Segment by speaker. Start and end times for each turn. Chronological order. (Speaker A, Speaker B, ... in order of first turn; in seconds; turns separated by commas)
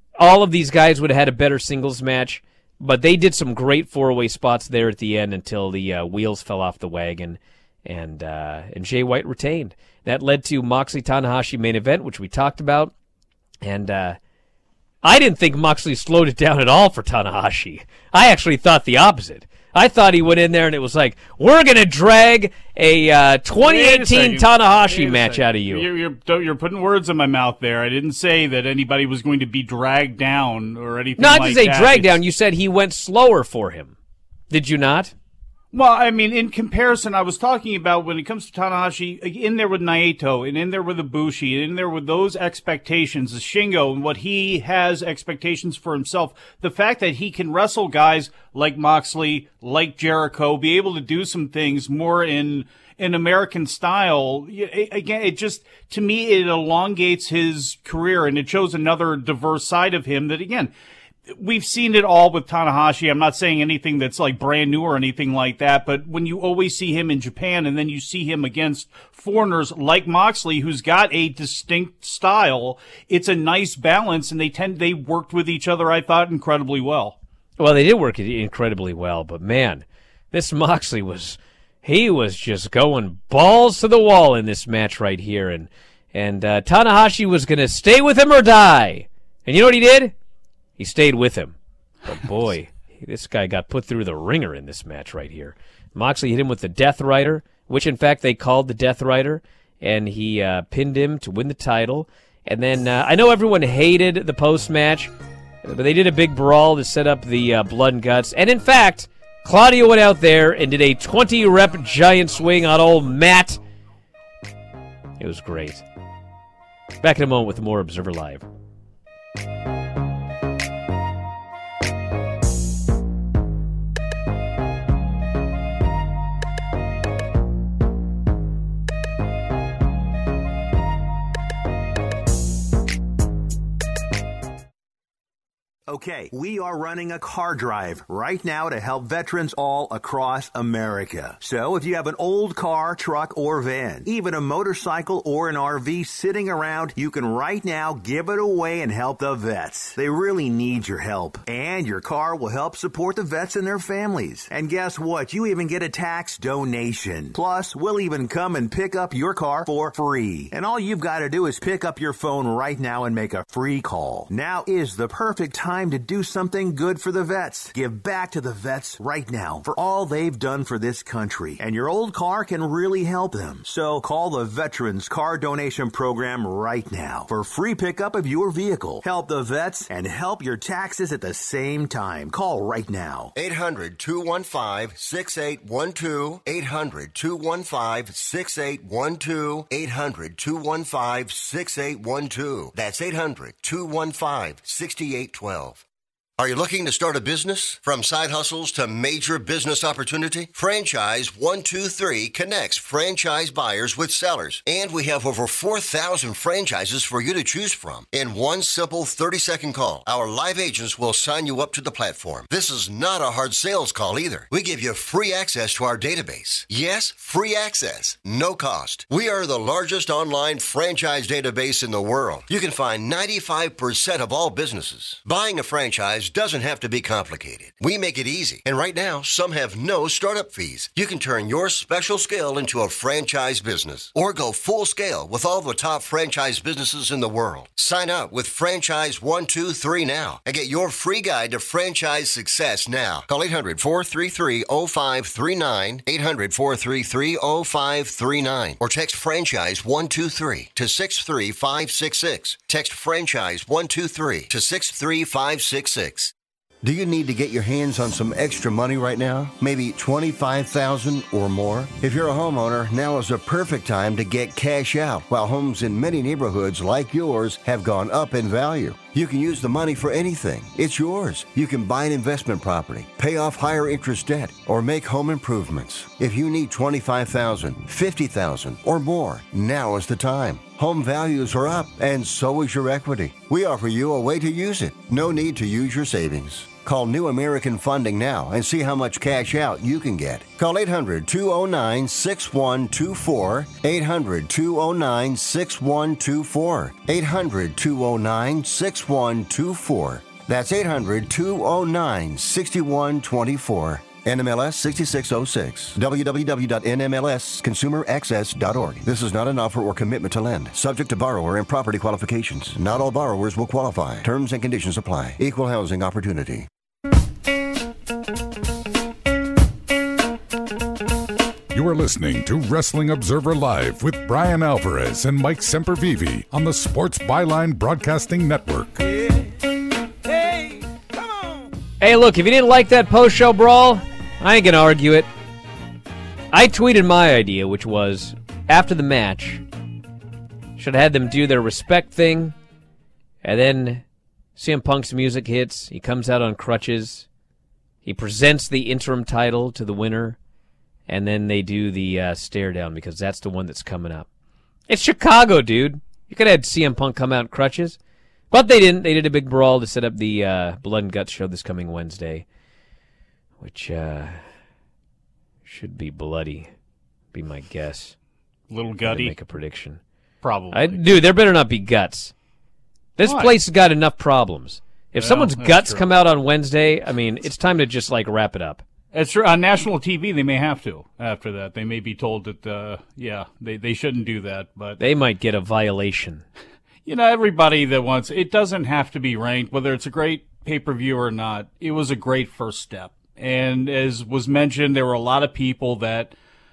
Speaker A: 0.2-12.9, Speaker A: 13.6-14.2, Speaker A: 15.0-25.9, Speaker B: 23.6-32.2, Speaker A: 31.2-33.9, Speaker A: 34.5-35.1, Speaker B: 35.7-60.7, Speaker B: 61.3-77.2, Speaker A: 77.6-90.1, Speaker A: 90.8-105.1, Speaker A: 105.6-113.6, Speaker A: 115.2-115.8, Speaker A: 117.0-118.4, Speaker C: 135.9-183.3, Speaker D: 183.3-195.8, Speaker D: 196.4-316.7, Speaker E: 321.7-329.0, Speaker A: 332.0-335.3, Speaker A: 336.5-339.6, Speaker A: 340.8-342.5, Speaker A: 343.4-344.0, Speaker A: 344.6-347.2, Speaker A: 348.0-350.4, Speaker A: 351.1-354.3, Speaker A: 354.9-358.0, Speaker A: 358.5-362.4, Speaker A: 363.6-364.4, Speaker A: 365.6-366.7, Speaker A: 367.3-368.1, Speaker B: 368.7-369.3, Speaker A: 369.1-370.0, Speaker B: 370.4-371.0, Speaker A: 370.7-372.3, Speaker A: 373.2-378.8, Speaker B: 373.2-373.5, Speaker B: 375.2-376.0, Speaker B: 379.1-385.0, Speaker A: 385.0-386.4, Speaker B: 387.1-396.3